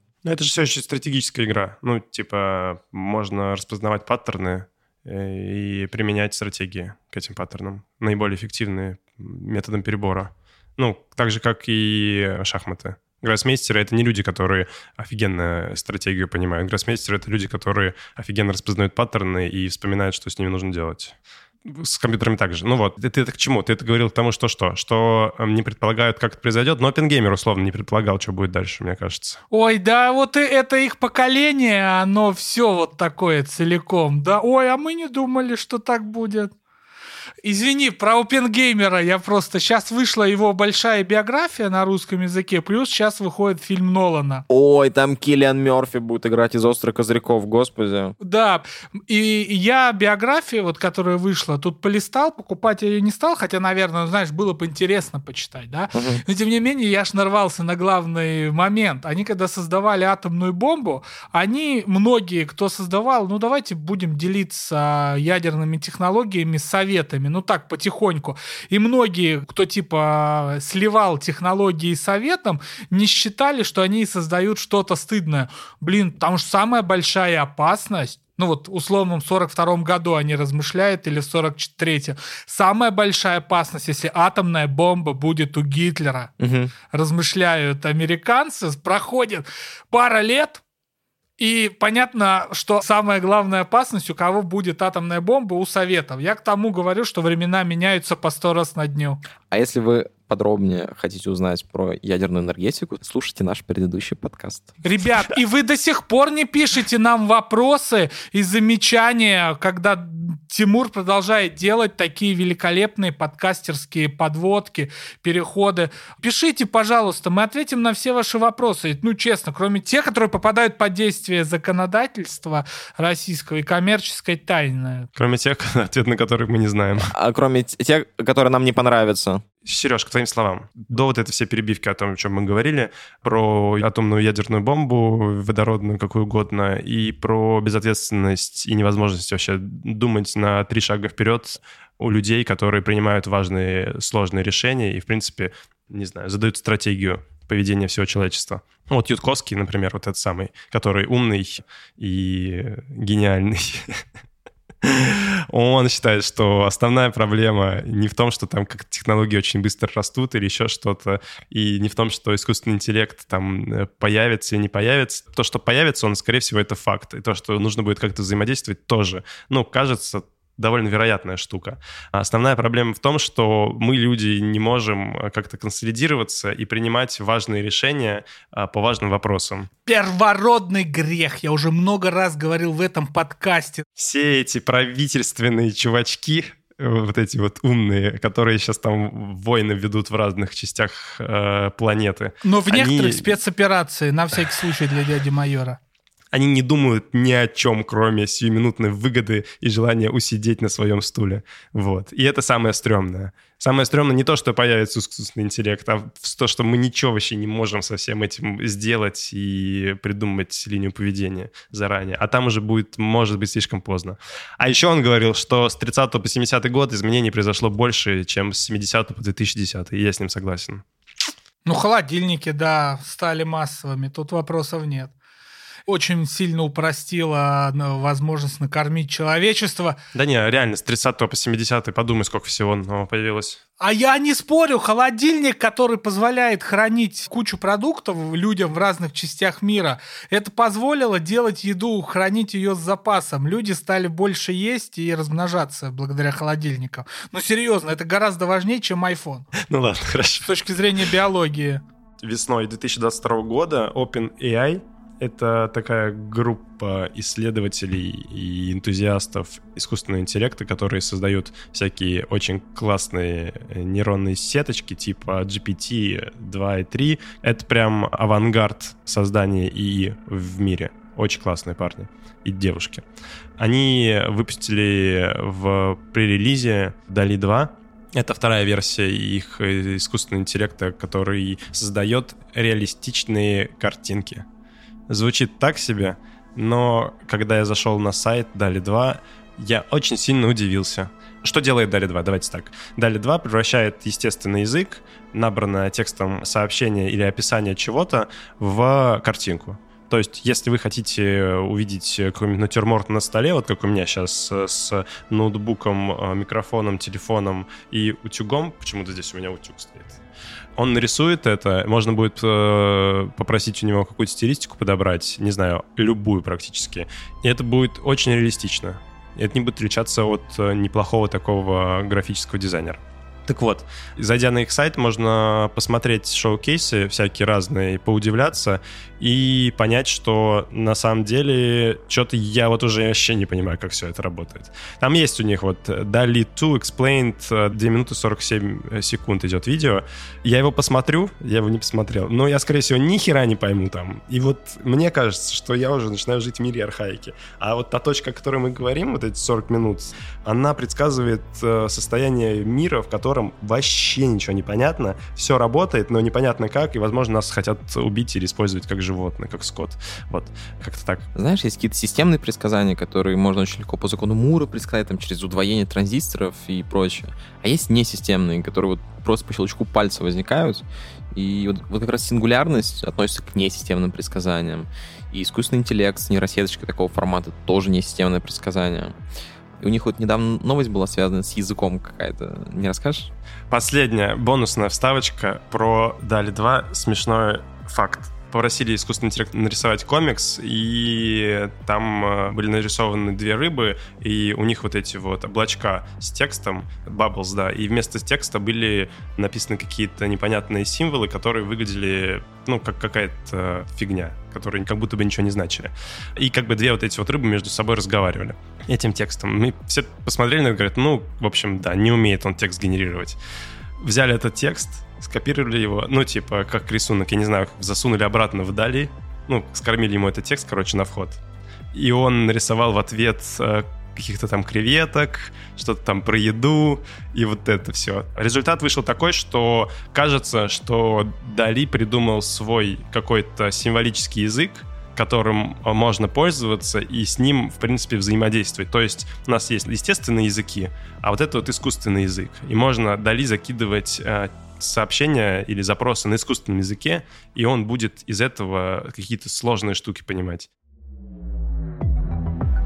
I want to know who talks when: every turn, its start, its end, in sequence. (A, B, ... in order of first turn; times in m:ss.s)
0:00.2-0:29.4 A
0:29.5-0:36.5 B
0:37.4-0:44.4 B
0:44.5-0:48.1 C
0:48.2-1:26.3 B
0:55.9-0:56.2 C
1:26.4-1:26.7 C
1:26.9-1:30.6 B
1:31.4-1:39.2 B
1:39.5-1:44.7 C
1:44.8-2:05.1 B
2:05.1-2:07.1 A
2:07.1-2:09.4 C
2:09.6-2:34.0 A
2:34.8-2:59.7 A
2:59.9-3:03.8 B
3:04.0-3:13.4 A
3:12.4-3:15.8 B
3:16.3-3:40.8 A
3:41.6-3:45.1 B
3:45.9-3:50.0 B
3:50.1-3:53.6 A
3:53.8-4:09.5 B
4:09.5-4:10.5 A
4:10.4-4:11.8 B
4:12.2-4:33.0 A
4:33.6-4:44.4 A
4:45.1-5:10.2 A
5:10.8-6:01.3 A
6:01.3-6:19.1 C
6:19.8-6:23.3 C
6:23.7-6:53.4 A
6:54.0-7:01.4 A
7:01.9-7:30.7 A